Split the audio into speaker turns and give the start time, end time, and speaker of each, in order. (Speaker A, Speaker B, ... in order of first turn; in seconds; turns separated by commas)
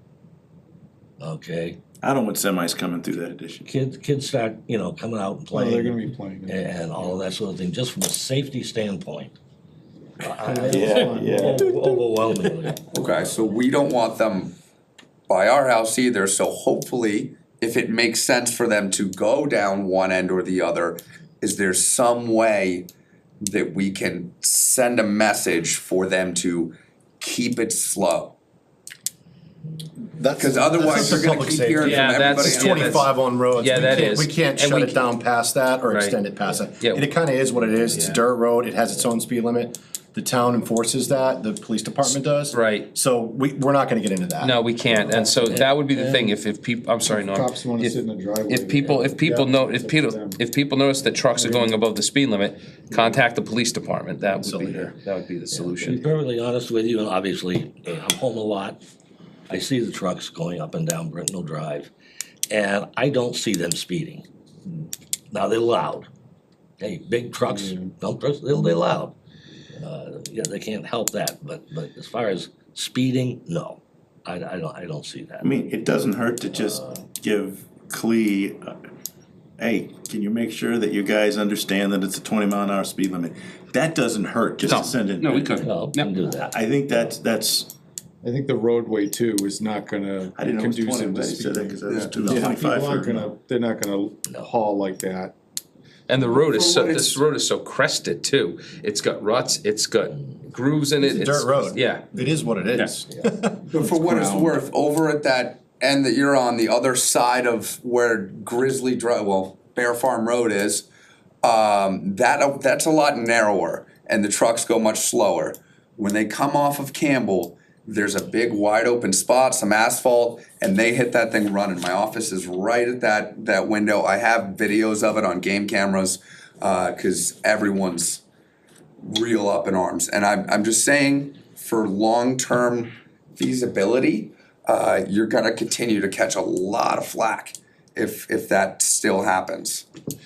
Speaker A: 1.2-1.8, Speaker B: 2.0-3.6, Speaker A: 3.6-9.4, Speaker C: 5.5-7.2, Speaker A: 10.2-13.3, Speaker C: 10.4-11.6, Speaker B: 10.7-11.1, Speaker D: 12.9-14.5, Speaker D: 15.3-22.9, Speaker D: 23.4-28.3, Speaker E: 30.2-44.6, Speaker D: 30.4-33.1, Speaker F: 31.8-35.1, Speaker F: 35.9-36.2, Speaker F: 36.8-37.1, Speaker F: 37.9-38.2, Speaker F: 42.5-42.9, Speaker F: 44.4-56.0, Speaker C: 45.0-45.4, Speaker A: 45.5-46.3, Speaker C: 47.1-50.4, Speaker C: 51.3-51.8, Speaker E: 54.4-54.9, Speaker A: 55.5-58.8, Speaker A: 59.5-61.9, Speaker A: 62.5-64.2, Speaker A: 65.3-66.1, Speaker A: 66.8-69.2, Speaker C: 67.5-67.9, Speaker A: 69.8-75.5, Speaker B: 75.4-78.8, Speaker B: 79.6-85.7, Speaker F: 84.6-86.1, Speaker A: 85.6-86.5, Speaker B: 86.4-87.7, Speaker C: 88.2-95.3, Speaker B: 90.4-93.2, Speaker D: 91.9-92.1, Speaker F: 96.1-102.1, Speaker D: 96.3-97.2, Speaker E: 101.0-104.6, Speaker D: 103.7-110.9, Speaker D: 111.4-128.2, Speaker D: 129.0-139.8